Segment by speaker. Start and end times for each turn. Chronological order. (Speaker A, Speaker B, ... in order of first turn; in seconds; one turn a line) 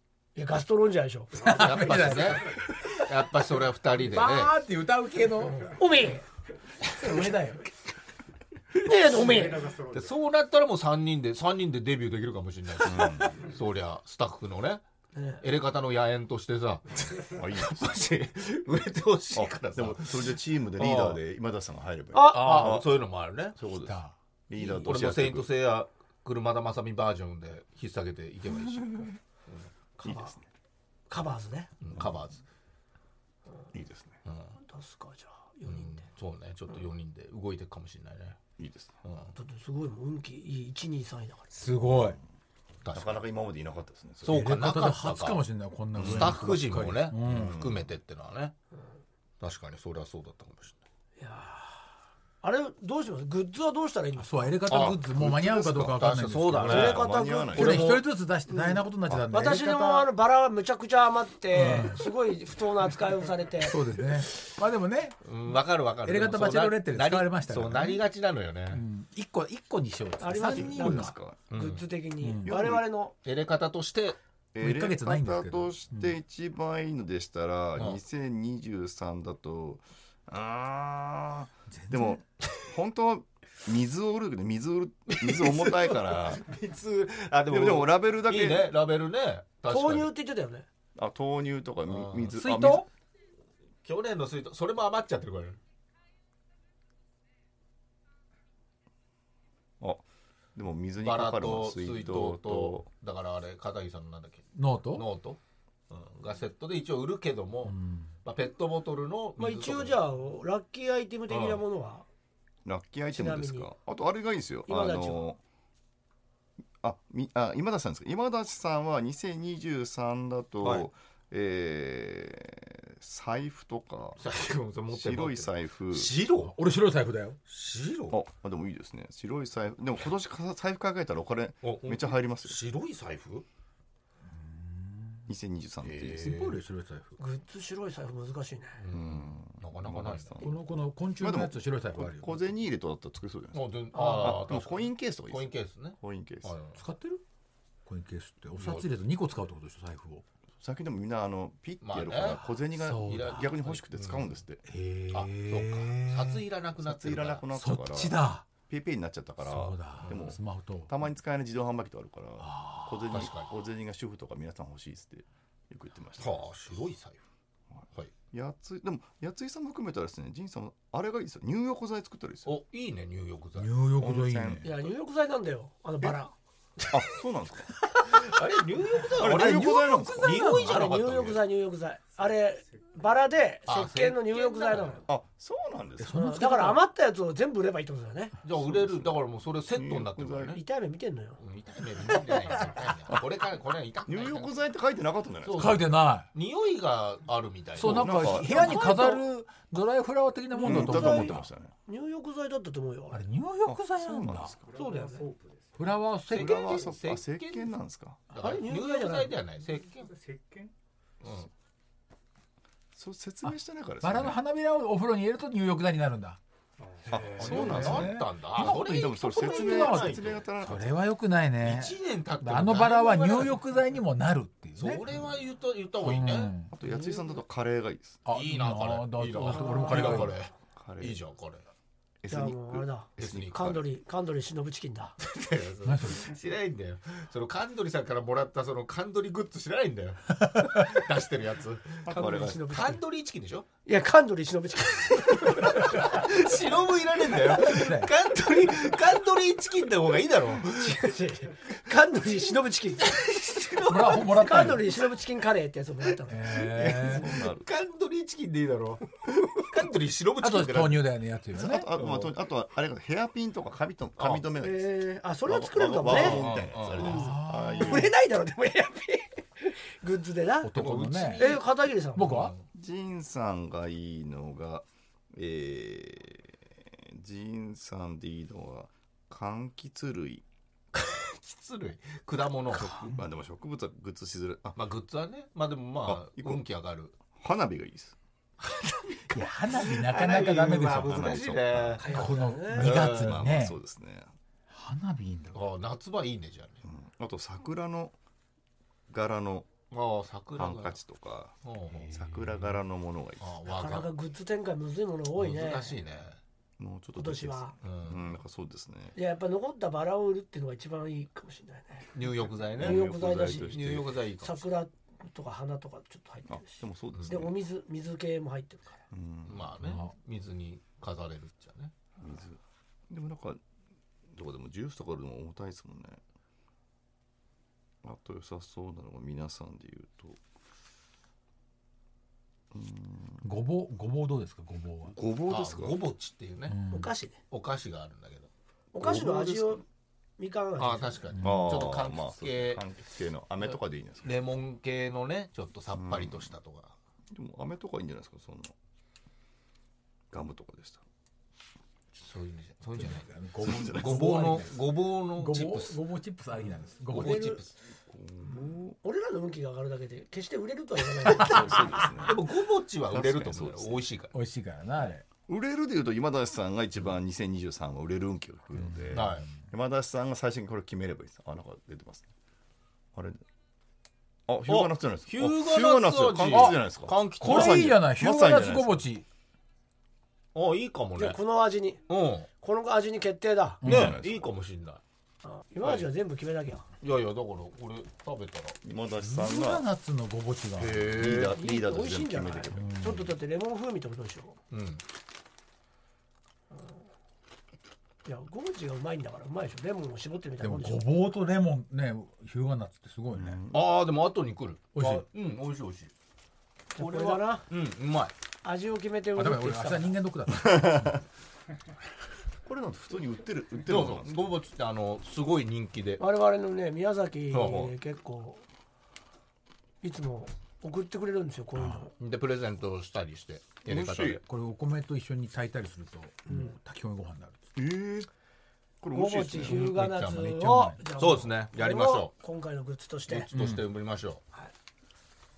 Speaker A: 0.3-2.0
Speaker B: 1.3-2.8
Speaker C: 1.4-3.0
Speaker D: 1.5-4.5
Speaker C: 4.0-5.7
Speaker A: 5.7-6.2
Speaker A: 6.9-7.6
Speaker A: 8.8-9.7
Speaker B: 9.0-10.2
Speaker D: 9.9-14.8
Speaker E: 12.8-13.4
Speaker A: 15.1-15.4
Speaker D: 15.4-21.2
Speaker E: 17.2-18.1
Speaker E: 19.3-23.0
Speaker A: 22.1-22.8
Speaker D: 22.2-23.6
Speaker E: 23.5-25.5
Speaker C: 23.8-24.1
Speaker D: 24.6-29.7
Speaker A: 30.0-30.4
Speaker E: 30.0-30.4
Speaker A: 31.1-31.7
Speaker D: 31.8-32.4
Speaker E: 31.9-32.2
Speaker E: 33.7-34.2
Speaker D: 34.2-34.5
Speaker A: 34.6-36.1
Speaker D: 35.6-38.4
Speaker E: 38.6-39.0
Speaker D: 39.0-39.3
Speaker A: 39.3-41.5
Speaker C: 41.5-42.2
Speaker E: 41.8-42.2
Speaker D: 42.8-43.2
Speaker E: 42.9-44.6
Speaker D: 44.2-48.5
Speaker C: 44.2-47.6
Speaker E: 45.9-46.4
Speaker E: 47.2-47.9
Speaker D: 49.4-50.8
Speaker A: 51.2-51.9
Speaker A: 52.4-54.6
Speaker C: 54.2-57.0
Speaker E: 54.7-58.0
Speaker D: 54.7-55.0
Speaker D: 55.9-58.1
Speaker A: 56.6-57.6
Speaker C: 57.5-60.1
Speaker A: 58.5-63.8
Speaker C: 61.5-62.0
Speaker C: 63.6-65.5
Speaker D: 65.2-68.8
Speaker C: 66.0-68.0
Speaker C: 68.7-71.2
Speaker A: 70.2-73.1
Speaker E: 70.5-71.5
Speaker D: 71.5-71.8
Speaker C: 72.2-72.5
Speaker E: 72.4-72.8
Speaker D: 73.2-74.2
Speaker E: 74.5-86.4
Speaker C: 74.6-76.1
Speaker C: 81.7-82.2
Speaker D: 85.1-90.1
Speaker E: 87.5-88.7
Speaker A: 89.7-90.7
Speaker E: 91.0-92.9
Speaker D: 91.9-92.3
Speaker C: 92.3-92.9
Speaker D: 93.8-95.6
Speaker E: 100.5-102.8
Speaker D: 101.0-105.4
Speaker C: 104.5-105.0
Speaker D: 105.9-110.0
Speaker C: 107.7-108.1
Speaker A: 109.4-112.0
Speaker D: 111.3-111.6
Speaker E: 112.6-115.4
Speaker A: 113.1-113.7
Speaker A: 114.7-115.3
Speaker E: 116.8-124.2
Speaker D: 120.6-120.9
Speaker D: 124.2-126.5
Speaker E: 124.9-126.2
Speaker C: 126.4-127.4
Speaker D: 127.5-128.2
Speaker E: 128.1-132.6
Speaker D: 131.6-133.4
Speaker C: 134.2-135.3
Speaker E: 135.3-136.4
Speaker D: 135.8-136.6
Speaker C: 136.1-137.2
Speaker A: 137.2-138.8
Speaker D: 138.8-140.4
Speaker E: 138.9-146.6
Speaker C: 140.4-142.3
Speaker D: 143.5-146.8
Speaker A: 143.9-144.4
Speaker C: 146.8-147.2
Speaker C: 147.8-150.2
Speaker D: 148.6-148.9
Speaker E: 150.6-154.6
Speaker D: 151.8-154.3
Speaker C: 152.7-153.5
Speaker C: 154.7-156.4
Speaker D: 155.1-157.4
Speaker E: 156.8-166.4
Speaker C: 157.5-158.5
Speaker C: 159.4-160.9
Speaker C: 162.4-163.3
Speaker D: 163.1-163.6
Speaker D: 166.2-167.2
Speaker E: 167.7-172.6
Speaker D: 172.4-173.7
Speaker C: 173.6-174.7
Speaker E: 173.9-174.9
Speaker A: 174.6-176.9
Speaker E: 176.9-177.8
Speaker D: 178.1-181.4
Speaker E: 179.0-180.3
Speaker C: 179.3-181.0
Speaker A: 180.2-185.1
Speaker B: 182.2-183.2
Speaker D: 183.7-185.0
Speaker E: 185.1-186.4
Speaker C: 186.0-186.8
Speaker A: 186.1-188.3
Speaker D: 188.4-190.6
Speaker E: 188.6-189.2
Speaker E: 189.7-190.6
Speaker A: 190.5-191.4
Speaker D: 191.4-194.6
Speaker E: 194.1-195.8
Speaker D: 195.4-198.8
Speaker C: 195.6-196.3
Speaker E: 197.7-199.1
Speaker C: 197.8-201.4
Speaker A: 198.5-199.2
Speaker A: 200.5-203.2
Speaker E: 200.6-201.7
Speaker C: 203.1-204.5
Speaker E: 203.6-204.6
Speaker B: 204.5-206.0
Speaker A: 204.7-205.2
Speaker C: 205.8-206.8
Speaker D: 206.3-207.7
Speaker E: 206.3-208.2
Speaker D: 208.3-210.1
Speaker A: 208.3-209.4
Speaker B: 209.6-210.7
Speaker D: 211.2-211.5
Speaker E: 212.9-214.4
Speaker C: 213.4-216.4
Speaker B: 216.8-217.6
Speaker E: 217.1-221.0
Speaker D: 217.1-220.4
Speaker C: 217.2-225.0
Speaker D: 221.6-223.6
Speaker D: 224.8-226.5
Speaker C: 226.0-226.7
Speaker E: 226.7-228.2
Speaker A: 226.9-227.2
Speaker C: 228.2-230.3
Speaker D: 228.3-231.6
Speaker A: 229.5-230.2
Speaker E: 230.0-231.2
Speaker E: 232.2-233.8
Speaker A: 232.3-235.2
Speaker D: 233.2-233.7
Speaker D: 235.2-242.1
Speaker C: 235.8-236.3
Speaker C: 240.5-240.8
Speaker E: 242.0-242.8
Speaker A: 242.1-243.0
Speaker D: 242.7-243.7
Speaker A: 243.8-246.3
Speaker D: 245.4-251.0
Speaker C: 247.5-248.1
Speaker A: 250.7-253.2
Speaker D: 253.0-254.8
Speaker C: 253.8-254.9
Speaker A: 254.1-256.6
Speaker C: 256.3-257.3
Speaker D: 256.4-261.2
Speaker E: 256.8-257.7
Speaker C: 260.4-261.9
Speaker E: 261.6-264.9
Speaker D: 261.9-262.3
Speaker D: 264.2-264.4
Speaker A: 264.6-266.4
Speaker E: 265.4-268.1
Speaker D: 266.1-267.2
Speaker C: 267.0-268.1
Speaker A: 267.0-270.7
Speaker C: 270.6-271.5
Speaker D: 270.7-272.6
Speaker A: 271.3-272.4
Speaker C: 272.1-272.5
Speaker E: 272.7-280.4
Speaker D: 280.9-283.0
Speaker E: 282.7-284.8
Speaker C: 282.9-283.2
Speaker D: 284.8-287.1
Speaker E: 286.0-286.6
Speaker E: 287.3-288.1
Speaker D: 288.6-293.4
Speaker C: 289.3-291.3
Speaker E: 290.8-292.1
Speaker A: 292.0-293.0
Speaker C: 292.1-293.8
Speaker E: 292.8-294.3
Speaker C: 294.7-295.6
Speaker D: 295.5-296.8
Speaker E: 296.8-298.1
Speaker E: 299.1-299.7
Speaker D: 299.9-301.0
Speaker E: 300.6-303.5
Speaker D: 301.6-302.1
Speaker C: 302.0-302.7
Speaker D: 303.4-304.1
Speaker A: 303.7-305.9
Speaker D: 305.4-306.4
Speaker E: 306.8-309.1
Speaker A: 307.1-307.7
Speaker D: 307.8-308.2
Speaker A: 309.1-312.1
Speaker D: 312.1-314.7
Speaker E: 312.6-314.1
Speaker A: 312.8-319.0
Speaker E: 316.5-317.6
Speaker E: 319.1-319.7
Speaker D: 319.5-321.9
Speaker C: 319.8-320.1
Speaker E: 322.2-323.6
Speaker E: 324.3-326.2
Speaker E: 328.0-330.4
Speaker E: 332.7-333.4
Speaker C: 333.4-335.1
Speaker E: 335.1-336.0
Speaker D: 335.5-336.8
Speaker C: 336.7-337.1
Speaker A: 336.9-337.4
Speaker D: 337.5-339.8
Speaker A: 338.9-339.8
Speaker A: 340.4-341.3
Speaker D: 340.8-342.8
Speaker C: 341.3-341.8
Speaker E: 341.4-344.3
Speaker D: 343.6-346.9
Speaker E: 345.9-346.5
Speaker E: 347.3-348.7
Speaker E: 350.3-351.0
Speaker D: 352.1-353.3
Speaker C: 353.0-354.7
Speaker E: 353.6-354.4
Speaker D: 353.9-356.0
Speaker C: 355.4-357.5
Speaker D: 357.1-357.7
Speaker A: 357.1-357.6
Speaker E: 358.1-359.0
Speaker A: 358.5-362.0
Speaker E: 361.2-362.5
Speaker D: 362.2-364.4
Speaker E: 363.0-364.1
Speaker C: 364.3-365.2
Speaker E: 365.5-372.3
Speaker C: 368.8-369.4
Speaker D: 369.1-369.5
Speaker E: 373.1-373.4
Speaker E: 374.5-379.1
Speaker D: 374.7-378.0
Speaker C: 376.5-376.8
Speaker C: 377.4-379.2
Speaker D: 380.5-381.4
Speaker A: 381.2-382.0
Speaker D: 382.1-382.5
Speaker A: 382.6-383.8
Speaker C: 383.8-384.1
Speaker E: 383.8-384.5
Speaker D: 383.8-385.0
Speaker A: 385.4-386.8
Speaker D: 385.8-386.1
Speaker D: 387.0-388.8
Speaker E: 388.8-389.9
Speaker C: 389.2-391.2
Speaker D: 390.8-391.6
Speaker E: 391.1-393.0
Speaker A: 391.5-394.6
Speaker C: 392.7-393.3
Speaker D: 394.7-395.0
Speaker A: 398.2-401.1
Speaker C: 400.6-403.6
Speaker E: 403.3-403.9
Speaker D: 403.7-406.1
Speaker C: 404.9-405.3
Speaker A: 406.9-407.6
Speaker D: 406.9-408.3
Speaker A: 408.6-410.2
Speaker C: 409.4-411.2
Speaker E: 410.5-411.2
Speaker E: 412.6-414.5
Speaker D: 413.8-416.2
Speaker A: 416.2-418.6
Speaker D: 417.5-417.9
Speaker A: 420.0-422.1
Speaker C: 421.7-422.0
Speaker D: 422.2-424.4
Speaker E: 423.9-424.4
Speaker C: 424.4-427.6
Speaker A: 426.4-426.7
Speaker E: 427.8-428.3
Speaker E: 429.0-429.9
Speaker A: 429.1-433.5
Speaker D: 429.4-430.5
Speaker C: 429.7-431.1
Speaker D: 431.2-432.3
Speaker D: 433.3-434.4
Speaker C: 433.5-433.9